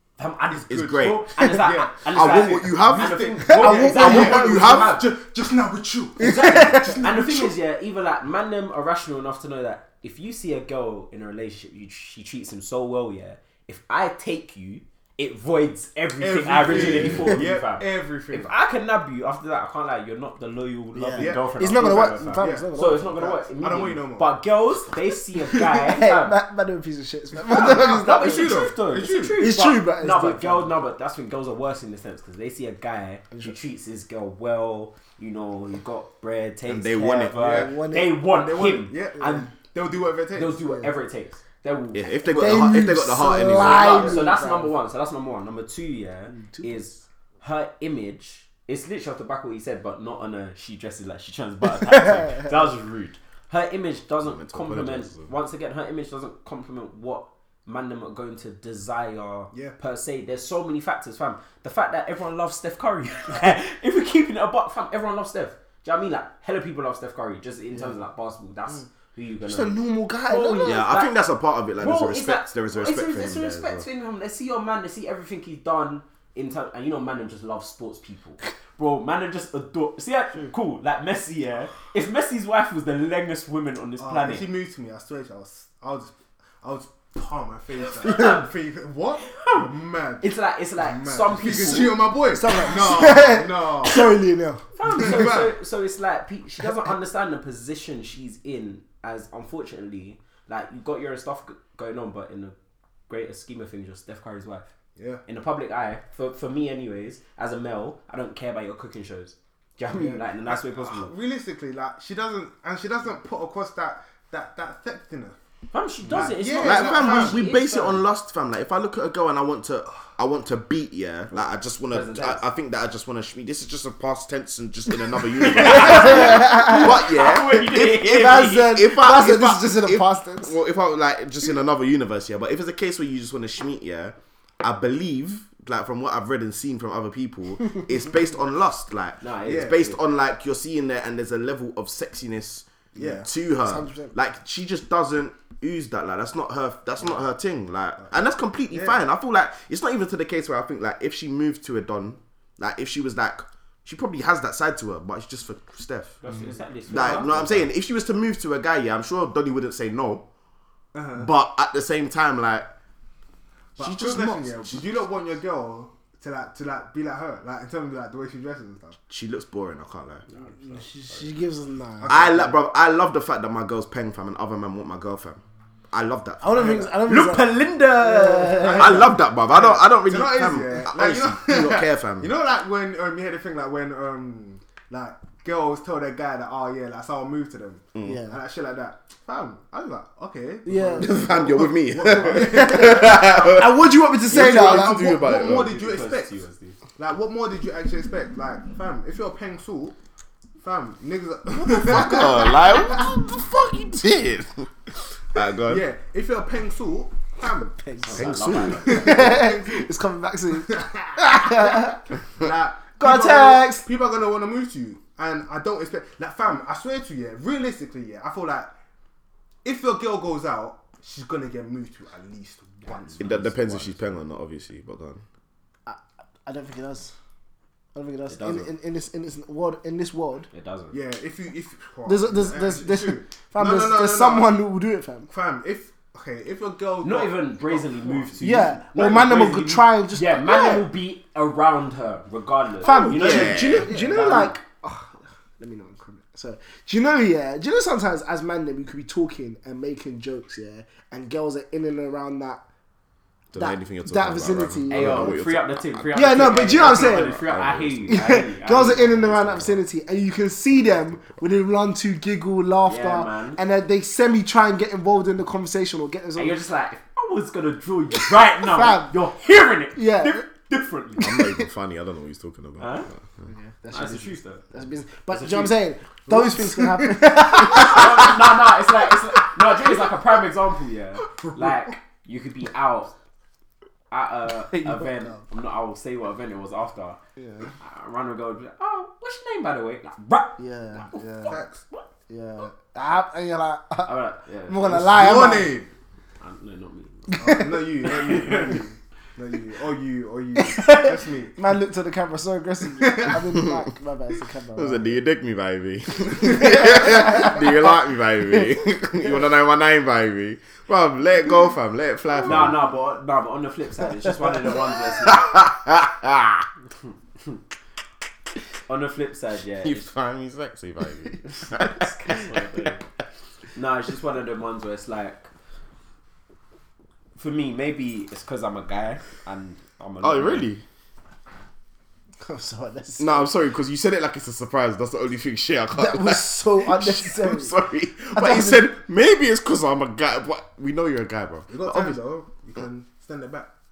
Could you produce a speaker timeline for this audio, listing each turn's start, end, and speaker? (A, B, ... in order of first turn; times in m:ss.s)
0:00.2-0:05.1 A
0:00.5-0:07.5 B
0:00.7-0:01.4 C
0:02.1-0:05.0 C
0:06.2-0:26.4 A
0:06.2-0:07.0 D
0:16.2-0:18.6 B
0:16.7-0:17.5 D
0:20.9-0:23.3 D
0:21.2-0:24.3 B
0:25.7-0:28.7 D
0:27.5-0:29.4 B
0:27.5-0:39.5 A
0:29.4-0:30.8 D
0:36.7-0:37.4 C
0:37.4-0:37.8 B
0:37.4-0:38.2 D
0:38.3-0:40.6 B
0:40.3-0:42.2 A
0:40.6-0:40.9 D
0:41.9-0:44.1 C
0:42.3-0:44.7 D
0:43.8-1:11.2 A
0:46.3-0:46.8 D
0:52.2-0:52.4 D
0:54.2-0:55.3 C
0:59.5-0:59.8 B
1:07.7-1:08.0 D
1:09.4-1:10.9 D
1:10.6-1:13.9 C
1:11.8-1:24.5 A
1:24.0-1:34.1 B
1:27.8-1:28.5 A
1:29.2-1:29.7 A
1:30.2-1:32.0 A
1:32.3-1:34.6 D
1:34.7-1:42.6 A
1:34.9-1:35.5 B
1:43.1-1:44.6 A
1:45.0-1:45.2 B
1:45.3-1:51.1 A
1:49.9-1:55.4 B
1:55.7-1:58.0 A
1:56.1-1:57.4 B
1:56.6-2:36.2 C
2:01.9-2:02.4 A
2:05.4-2:08.7 A
2:05.6-2:07.0 D
2:08.0-2:10.6 D
2:19.2-2:20.0 A
2:19.5-2:19.8 B
2:23.0-2:23.3 B
2:23.6-2:24.1 D
2:28.7-2:29.0 B
2:36.2-2:37.6 A
2:36.9-2:40.2 C
2:40.9-2:41.3 B
2:41.2-2:42.7 C
2:43.8-2:49.0 B
2:43.8-2:44.8 C
2:49.1-2:50.3 C
2:50.6-2:52.1 D
2:52.0-2:52.6 B
2:52.1-2:56.8 C
2:56.4-2:59.0 D
2:56.5-2:56.9 B
2:57.1-2:59.0 A
2:58.6-3:13.5 B
2:58.7-3:02.3 C
3:08.0-3:08.4 D
3:10.7-3:15.4 D
3:11.0-3:15.8 C
3:14.3-3:16.4 B
3:15.4-3:16.8 A
3:17.0-3:20.0 B
3:20.6-3:23.0 B
3:21.6-3:24.7 C
3:25.3-3:25.9 C
3:25.7-3:27.8 B
3:27.7-3:32.0 D
3:28.0-3:29.3 A
3:28.1-3:29.2 C
3:28.7-3:29.9 B
3:30.6-3:38.7 B
3:33.0-3:33.9 D
3:39.6-3:44.2 B
3:43.2-3:45.2 C
3:45.9-3:47.1 D
3:48.0-3:50.5 D
3:48.3-3:48.7 A
3:50.5-3:51.0 A
3:50.9-3:54.5 B
3:52.1-3:55.3 D
3:55.3-3:58.8 B
3:57.0-4:04.5 A
3:58.4-4:00.9 D
4:02.8-4:12.6 D
4:03.0-4:03.9 C
4:03.7-4:04.5 B
4:13.5-4:18.3 C
4:13.6-4:15.4 D
4:14.9-4:19.8 A
4:16.1-4:17.4 D
4:18.1-4:26.6 D
4:19.3-4:19.6 C
4:22.8-4:23.6 A
4:26.4-4:31.5 A
4:28.6-4:29.1 D
4:30.0-4:30.4 D
4:31.2-4:33.5 C
4:32.8-4:33.1 A
4:33.4-4:38.6 D
4:33.9-4:34.7 A
4:35.3-4:35.8 A
4:36.3-4:37.9 B
4:37.4-4:43.2 A
4:41.3-4:41.9 B
4:44.1-4:47.2 A
4:44.7-4:45.4 D
4:47.4-4:47.7 D
4:47.8-4:52.0 A
4:50.6-4:51.6 D
4:51.4-4:51.8 B
4:52.3-4:54.2 D
4:54.0-4:55.0 A
4:54.7-4:55.8 D
4:54.8-4:55.9 B
4:56.4-4:58.8 A
4:57.3-4:57.8 D
4:57.4-5:01.6 B
5:00.6-5:05.2 D
5:03.0-5:03.4 B
5:04.8-5:12.8 C
5:06.5-5:07.7 D
5:12.4-5:15.6 A
5:15.2-5:16.6 C
5:18.9-5:20.0 A
5:19.8-5:22.9 C
5:21.7-5:23.0 A
5:23.8-5:25.5 A
5:27.4-5:30.7 A
5:30.2-5:30.8 C
5:32.4-5:33.5 D
5:33.2-5:42.2 C
5:36.0-5:37.8 D
5:38.3-5:38.9 D
5:41.7-5:43.7 B